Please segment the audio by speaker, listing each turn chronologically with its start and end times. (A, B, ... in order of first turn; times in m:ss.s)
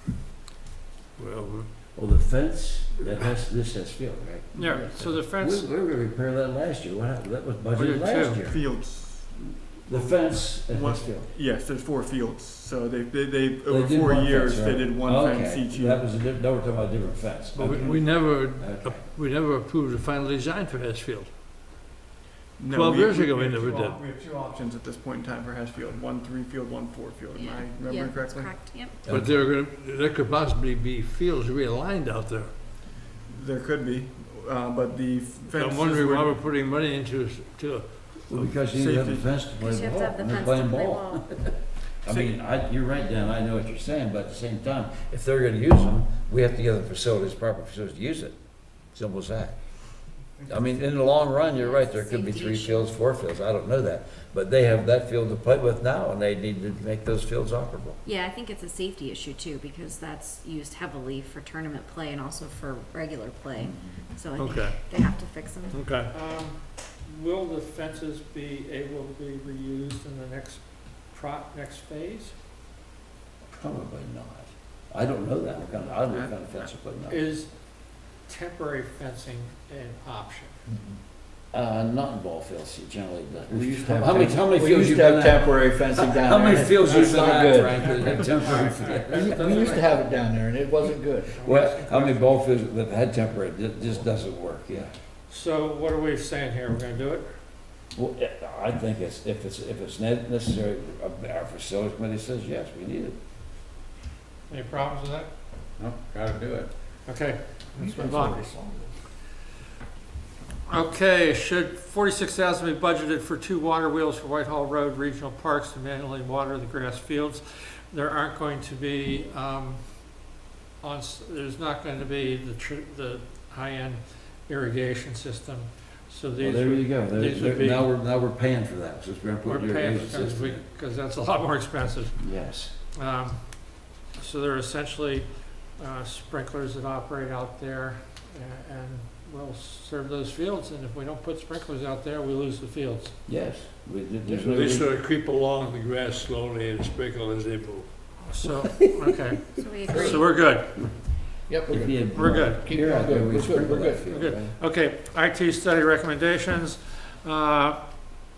0:01.2-0:01.7 A
0:01.9-0:08.6 B
0:04.6-0:05.7 C
0:04.6-0:05.1 D
0:07.8-0:08.4 C
0:08.4-0:16.1 E
0:09.9-0:11.3 B
0:13.7-0:19.1 B
0:17.5-0:21.3 A
0:17.7-0:18.0 E
0:22.6-0:28.6 E
0:22.7-0:24.0 A
0:27.3-0:29.0 F
0:29.1-0:29.4 B
0:29.1-0:32.6 A
0:33.3-0:36.4 E
0:35.5-0:38.5 A
0:38.3-0:48.4 B
0:38.6-0:39.5 E
0:39.6-0:41.3 F
0:42.1-0:42.4 E
0:48.9-0:49.6 B
0:50.5-0:58.0 B
0:51.5-0:52.9 F
0:58.0-1:05.8 F
1:04.4-1:04.8 A
1:05.7-1:06.1 A
1:06.1-1:12.4 C
1:13.5-1:17.2 B
1:17.1-1:20.6 C
1:20.7-1:21.0 D
1:21.5-1:29.8 B
1:23.5-1:28.3 D
1:26.8-1:30.4 C
1:29.1-1:31.3 D
1:31.0-1:32.4 C
1:31.4-1:35.0 B
1:35.3-1:37.3 C
1:38.0-1:43.2 B
1:44.5-1:45.3 C
1:45.8-1:46.7 B
1:47.1-1:48.4 C
1:47.8-1:48.9 D
1:50.7-2:07.9 C
2:06.4-2:10.6 B
2:09.4-2:23.2 C
2:12.2-2:12.8 B
2:23.3-2:24.9 B
2:24.2-2:24.6 D
2:24.4-2:28.0 A
2:28.2-2:31.4 C
2:29.5-2:30.2 F
2:29.9-2:30.2 D
2:31.5-2:34.4 D
2:31.7-2:34.5 B
2:32.1-2:32.6 C
2:34.1-2:37.9 C